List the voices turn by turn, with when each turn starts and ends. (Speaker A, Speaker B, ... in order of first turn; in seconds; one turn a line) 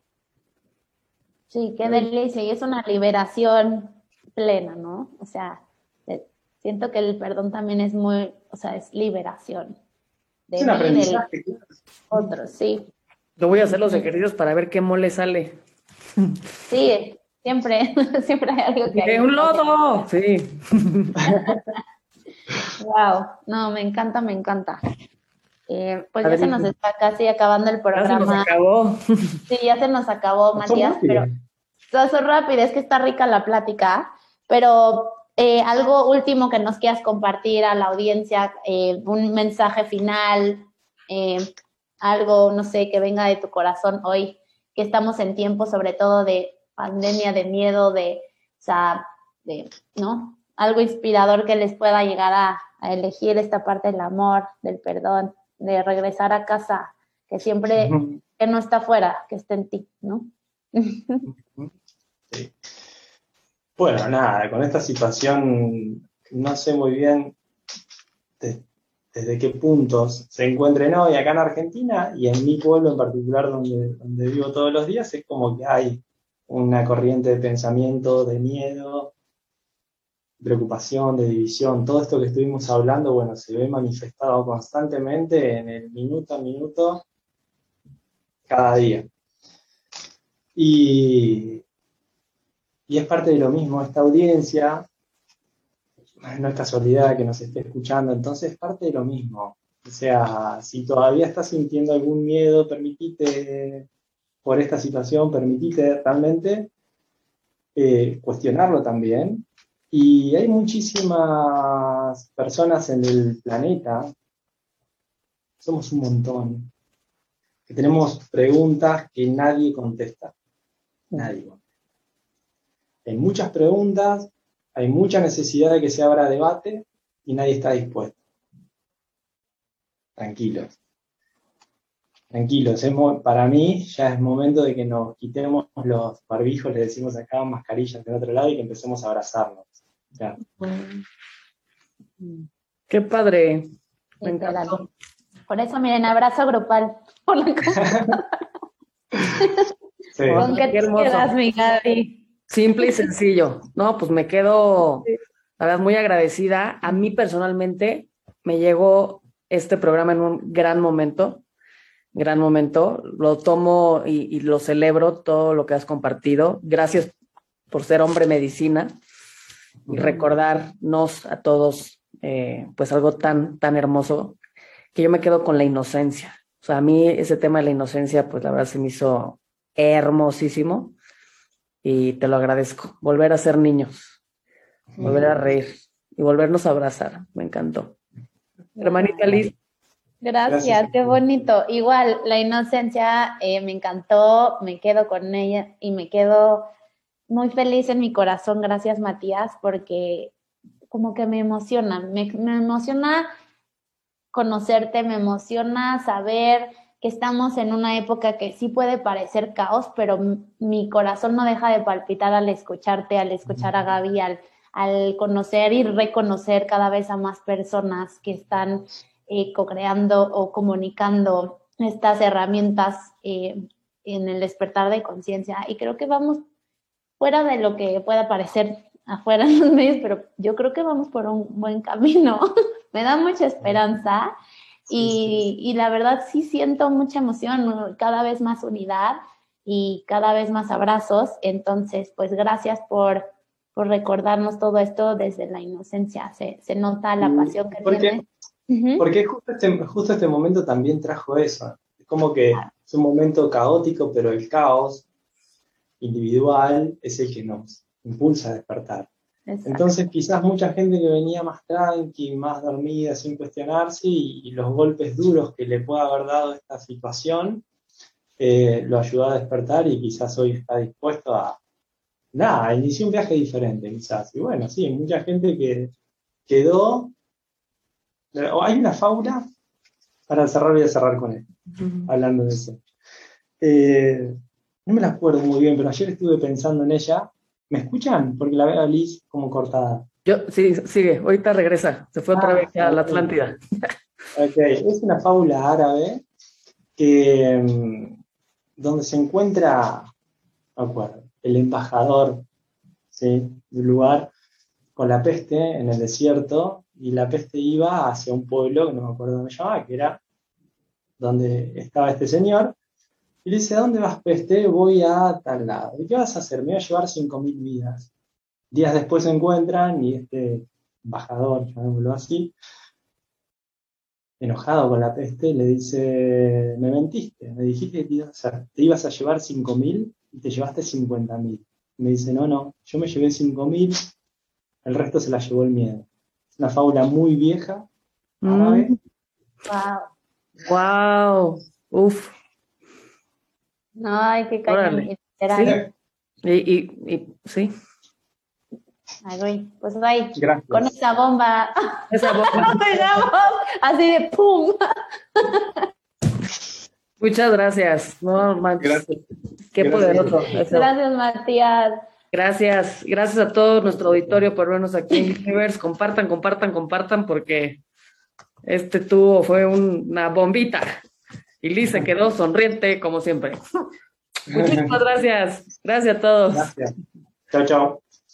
Speaker A: 1.5-9.8
Speaker A: 10.5-11.3
Speaker B: 10.6-12.3
Speaker A: 12.1-12.9
Speaker C: 13.4-15.6
Speaker A: 13.5-14.1
Speaker A: 16.7-20.1
Speaker C: 18.9-21.5
Speaker A: 21.3-21.6
Speaker A: 22.8-24.8
Speaker A: 25.7-28.5
Speaker C: 26.2-26.7
Speaker C: 27.9-29.4
Speaker A: 29.5-31.3
Speaker B: 30.6-31.3
Speaker A: 31.9-41.5
Speaker A: 42.0-61.3
Speaker B: 57.8-58.2
Speaker B: 61.3-61.7
Speaker B: 63.8-67.4
Speaker B: 68.4-79.1
Speaker B: 80.4-87.0
Speaker B: 88.5-89.1
Speaker B: 90.6-91.6
Speaker B: 92.9-94.9
Speaker B: 96.2-103.9
Speaker B: 104.4-106.7
Speaker B: 107.8-114.1
Speaker B: 115.6-116.7
Speaker B: 117.7-120.3
Speaker B: 121.1-121.6
Speaker B: 123.0-128.2
Speaker B: 130.2-130.8
Speaker B: 132.3-140.4
Speaker A: 140.6-141.0
Speaker C: 142.9-143.7
Speaker A: 144.2-144.8
Speaker C: 144.2-144.9
Speaker A: 145.5-148.2
Speaker B: 147.9-148.1
Speaker A: 149.3-149.7
Speaker B: 150.2-150.5
Speaker C: 150.3-151.3
Speaker A: 150.3-152.2
Speaker C: 152.5-155.1
Speaker C: 155.6-161.4
Speaker C: 162.1-167.2
Speaker C: 167.7-168.9
Speaker C: 169.9-174.4
Speaker C: 174.9-180.9
Speaker C: 181.8-184.2
Speaker B: 185.0-185.4
Speaker C: 185.0-188.0
Speaker A: 188.8-189.3
Speaker C: 188.8-189.5
Speaker A: 190.2-196.7
Speaker B: 190.5-191.2
Speaker A: 197.3-200.3
Speaker A: 200.9-203.3
Speaker A: 204.3-226.4
Speaker A: 227.2-234.3
Speaker B: 234.9-235.5
Speaker A: 234.9-249.0
Speaker B: 247.2-248.2
Speaker B: 249.0-255.1
Speaker B: 256.0-259.1
Speaker A: 259.5-259.9
Speaker B: 259.6-267.6
Speaker B: 268.4-271.6
Speaker B: 272.3-275.9
Speaker B: 276.5-277.1
Speaker B: 278.3-279.4
Speaker B: 280.3-281.5
Speaker B: 282.1-282.8
Speaker B: 283.6-284.4
Speaker B: 284.9-290.1
Speaker C: 290.3-293.6
Speaker B: 292.3-293.4
Speaker B: 294.4-296.2
Speaker B: 297.0-298.2
Speaker B: 298.8-300.1
Speaker B: 300.8-302.4
Speaker B: 303.1-304.3
Speaker B: 305.0-310.2
Speaker B: 311.2-312.8
Speaker B: 313.4-318.1
Speaker B: 318.7-322.5
Speaker B: 324.4-334.1
Speaker B: 334.8-337.9
Speaker C: 338.4-339.0
Speaker B: 338.4-338.9
Speaker A: 339.7-340.1
Speaker C: 340.7-342.3
Speaker A: 344.0-345.8
Speaker C: 344.7-345.8
Speaker B: 345.6-345.9
Speaker C: 346.4-347.7
Speaker A: 349.2-354.8
Speaker B: 350.4-350.9
Speaker C: 352.1-353.0
Speaker A: 355.4-355.9
Speaker C: 357.2-359.1
Speaker B: 358.8-359.2
Speaker C: 359.7-360.9
Speaker B: 359.8-360.4
Speaker A: 360.5-362.0
Speaker C: 362.3-367.8
Speaker C: 368.6-370.9
Speaker C: 371.6-373.6
Speaker B: 374.5-375.0
Speaker C: 374.5-376.7
Speaker B: 376.5-376.9
Speaker B: 377.5-378.0